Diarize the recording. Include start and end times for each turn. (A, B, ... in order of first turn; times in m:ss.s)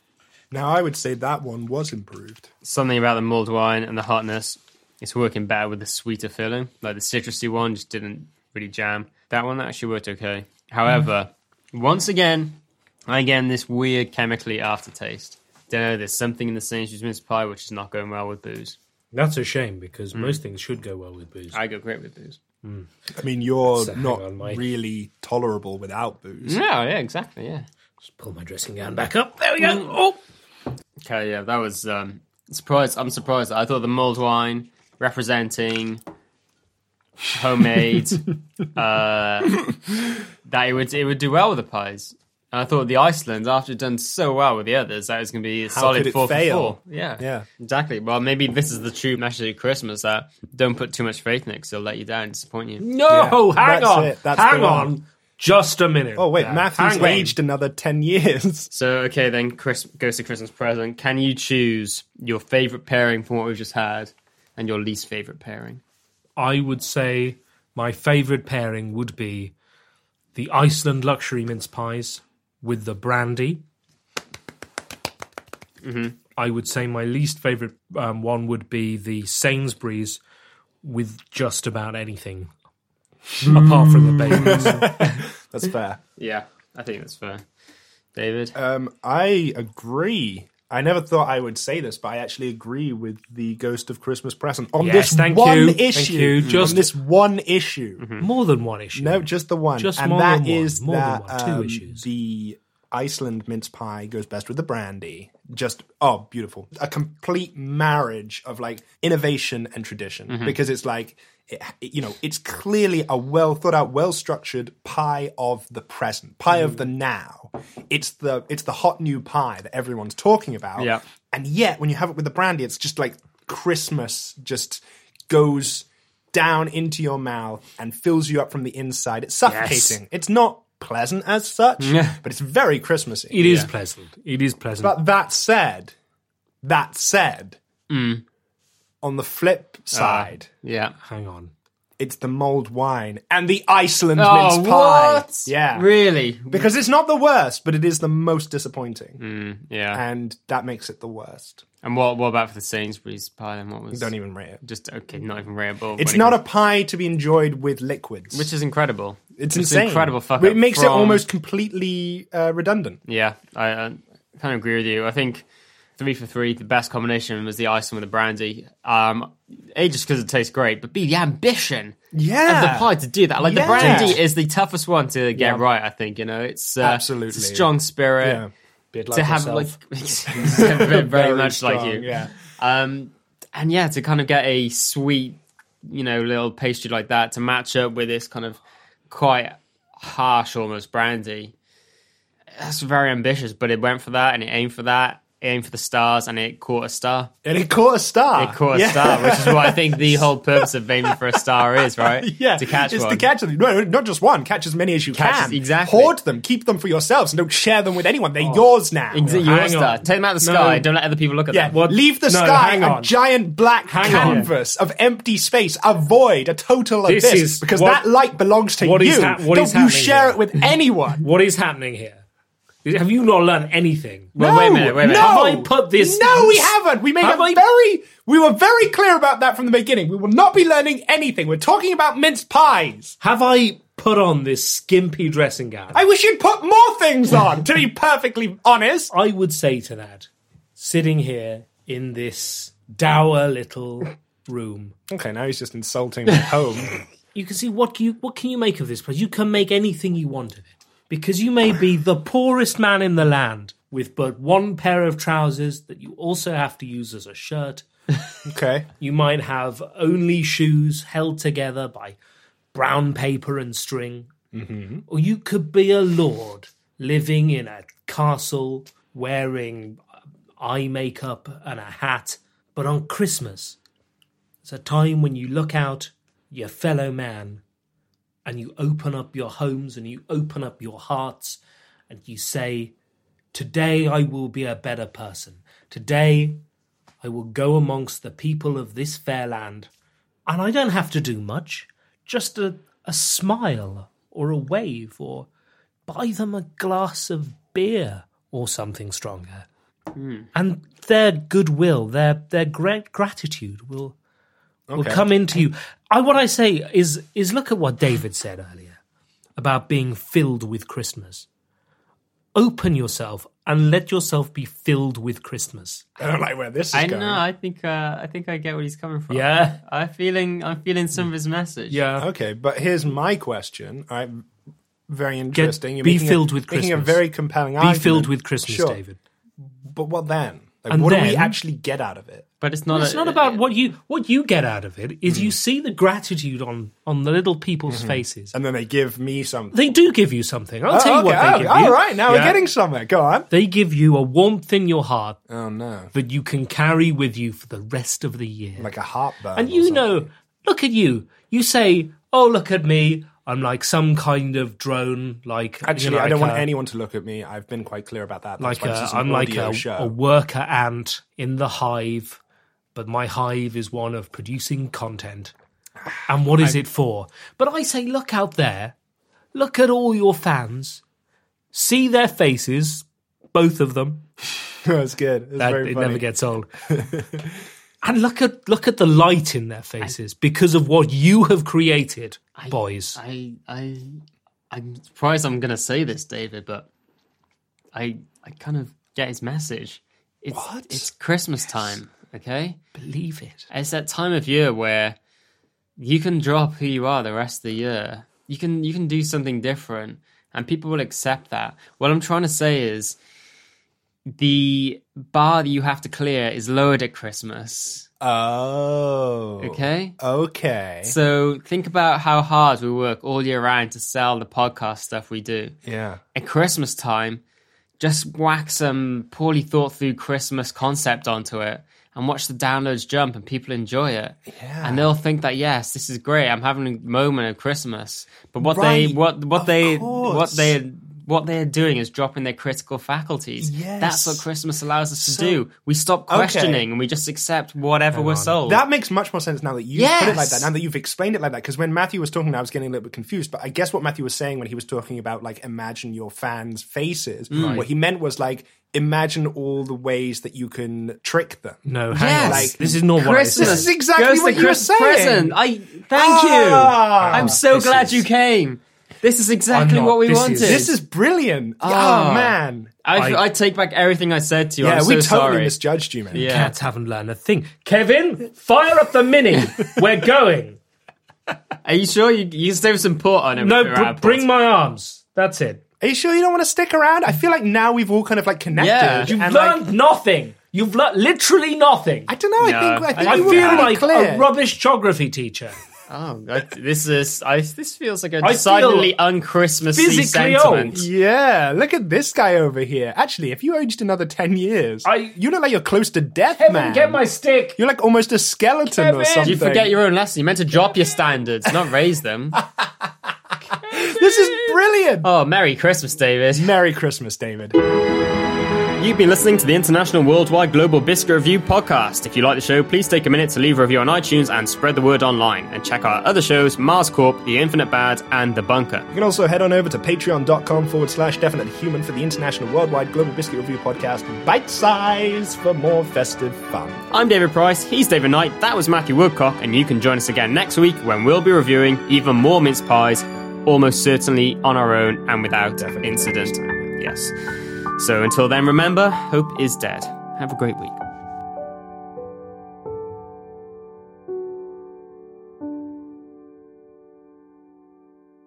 0:00.5-0:02.5 A
0:02.6-0:18.8 B
0:19.1-0:21.6 C
0:20.1-0:20.4 B
0:21.5-0:22.4 B
0:22.6-0:22.9 C
0:23.1-0:26.6 A
0:23.7-0:24.6 C
0:26.4-0:27.6 B
0:28.0-0:30.2 C
0:31.0-0:36.0 B
0:37.3-0:39.8 B
0:40.4-0:52.8 B
0:45.7-0:47.5 A
0:52.8-0:57.3 C
0:53.0-0:55.0 A
0:56.2-0:58.7 A
0:58.7-1:05.8 B
1:06.4-1:09.5 C
1:10.3-1:13.6 C
1:15.8-1:16.2 B
1:16.4-1:20.2 C
1:20.8-1:22.5 C
1:23.4-1:24.8 B
1:23.5-1:25.2 C
1:24.3-1:26.0 A
1:26.2-1:27.4 B
1:28.1-1:28.5 B
1:28.5-1:38.0 A
1:34.8-1:36.9 C
1:36.4-1:36.8 B
1:38.0-1:38.2 B
1:38.2-1:42.0 C
1:38.9-2:13.6 A
1:50.3-1:50.6 B
2:00.8-2:01.0 B
2:09.4-2:10.0 C
2:11.8-2:12.2 B
2:13.3-2:15.0 C
2:13.4-2:13.7 B
2:14.8-2:15.9 A
2:16.6-2:17.6 A
2:17.9-2:18.2 B
2:19.0-2:20.5 A
2:19.9-2:20.9 B
2:21.0-2:21.5 C
2:22.0-2:25.9 A
2:24.1-2:26.7 B
2:26.5-2:29.2 A
2:29.2-2:30.0 B
2:29.9-2:31.6 A
2:31.8-2:36.4 B
2:33.9-2:34.6 A
2:36.0-2:38.5 A
2:38.3-2:41.2 B
2:39.4-2:43.0 A
2:43.0-2:45.4 B
2:46.0-2:58.4 B
2:52.1-2:54.2 A
2:53.6-2:54.1 C
2:55.3-2:55.6 A
2:56.8-2:58.5 A
2:58.9-2:59.8 C
2:59.1-3:11.5 B
3:00.3-3:02.3 A
3:12.5-3:17.3 B
3:17.4-3:21.2 A
3:18.4-3:23.3 B
3:22.0-3:29.5 A
3:25.1-3:26.1 B
3:28.4-3:30.0 C
3:29.1-3:31.8 B
3:30.4-3:30.9 A
3:31.5-3:41.3 A
3:31.6-3:33.1 C
3:33.8-3:34.5 C
3:34.0-3:34.5 B
3:37.0-3:38.0 C
3:38.8-3:40.4 C
3:41.2-3:42.2 C
3:42.8-3:47.6 C
3:44.3-3:45.6 B
3:44.4-3:53.2 A
3:53.2-3:56.0 C
3:55.9-3:59.1 A
3:59.1-4:05.0 C
4:05.1-4:07.0 A
4:07.3-4:17.8 C
4:18.4-4:18.9 A
4:19.0-4:22.2 C
4:22.7-4:24.3 C
4:24.5-4:25.0 A
4:25.1-4:30.0 C
4:30.6-4:33.8 C
4:34.6-4:37.6 C
4:38.4-4:42.9 C
4:43.5-4:46.6 C
4:47.2-4:49.9 C
4:50.4-4:55.5 C
4:56.1-4:59.7 C
5:00.1-5:00.5 B
5:00.5-5:04.2 C
5:04.9-5:05.3 A
5:04.9-5:09.0 C
5:09.6-5:11.4 C
5:12.5-5:16.1 C
5:16.2-5:17.4 A
5:16.9-5:22.0 B
5:19.3-5:19.8 C
5:21.9-5:22.3 C
5:22.2-5:24.4 A
5:25.1-5:29.0 A
5:25.5-5:27.2 C
5:27.8-5:29.2 C
5:29.8-5:32.5 A
5:30.9-5:31.6 C
5:32.6-5:33.6 B
5:32.9-5:38.5 C
5:35.2-5:35.6 A
5:37.9-5:39.8 A
5:39.7-5:42.6 C
5:40.9-5:43.5 A
5:43.5-5:45.4 C
5:45.5-5:46.1 A
5:46.1-5:48.9 C
5:48.8-5:50.3 A
5:49.5-5:56.7 C
5:55.8-6:00.1 A
5:58.6-6:02.4 C
6:02.9-6:05.5 C
6:06.3-6:09.0 C
6:09.5-6:11.0 C
6:11.7-6:14.2 C
6:14.8-6:16.2 A
6:15.6-6:16.7 C
6:16.9-6:17.6 A
6:18.0-6:23.2 C
6:22.6-6:26.9 B
6:27.9-6:32.8 B
6:30.5-6:31.1 A
6:33.0-6:33.7 C
6:33.7-6:35.2 B
6:36.0-6:43.2 B
6:44.3-6:48.1 B
6:48.2-6:51.1 A
6:49.6-6:50.2 B
6:51.0-6:55.8 B
6:55.8-6:56.2 A
6:56.3-6:57.4 B
6:58.0-7:18.8 B
7:04.5-7:05.1 A
7:08.6-7:10.8 A
7:13.6-7:14.4 A
7:15.2-7:15.6 A
7:16.3-7:16.9 A
7:18.1-7:18.6 C
7:18.6-7:35.6 A
7:19.9-7:20.7 B
7:27.5-7:27.8 B
7:27.5-7:27.9 C
7:31.8-7:33.9 C
7:32.1-7:40.9 B
7:36.1-7:38.1 A
7:37.2-7:38.2 C
7:39.7-7:40.9 C
7:40.6-7:43.0 A
7:41.8-7:45.8 B
7:43.2-7:43.5 C
7:44.8-7:46.5 A
7:46.3-7:46.7 B
7:46.4-7:50.8 C
7:51.8-7:54.4 B
7:53.6-7:55.8 C
7:56.0-7:59.9 A
7:58.7-7:59.3 B
7:59.2-8:02.3 C
8:02.3-8:04.5 A
8:02.6-8:04.0 B
8:03.1-8:05.8 C
8:06.1-8:11.0 B
8:08.4-8:09.2 C
8:09.9-8:11.0 C
8:10.9-8:17.2 A
8:15.0-8:15.3 C
8:16.6-8:17.8 C
8:17.7-8:19.9 A
8:18.8-8:19.6 C
8:19.4-8:22.6 B
8:24.0-8:25.3 A
8:25.2-8:26.7 B
8:26.5-8:27.8 A
8:29.0-8:39.1 B
8:39.1-8:47.0 A
8:47.1-8:57.3 B
8:55.8-8:57.0 A
8:58.0-9:01.0 B